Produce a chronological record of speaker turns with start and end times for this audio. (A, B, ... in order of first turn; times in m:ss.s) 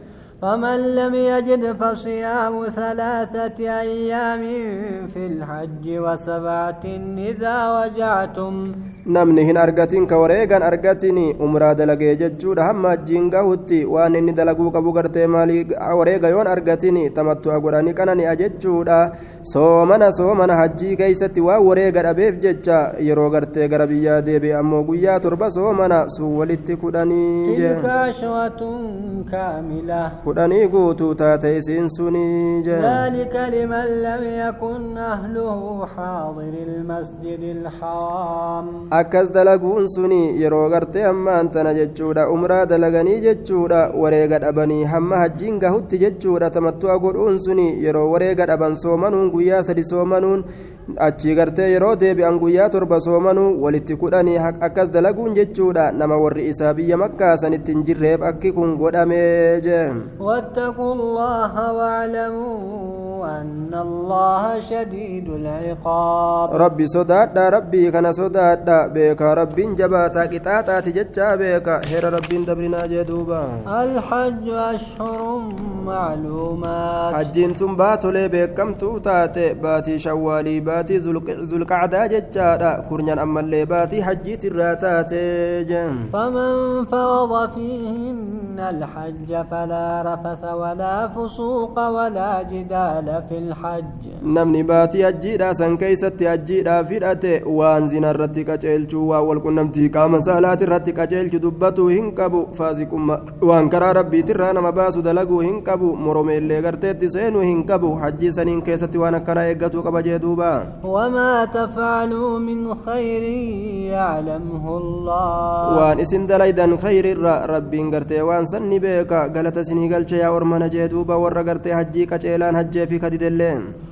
0:00.4-0:08.7 A
0:09.1-0:27.8 B
0:27.4-0:30.1 A
0:30.2-0:33.0 B
0:32.7-0:38.8 A
0:38.9-0:50.4 B
0:51.0-1:00.0 B
1:00.2-1:06.7 A
1:06.5-1:13.6 B
1:13.7-1:17.3 A
1:17.1-1:26.0 B
1:26.1-1:34.2 A
1:34.3-1:50.6 B
1:50.8-1:55.8 A
1:55.7-2:03.6 B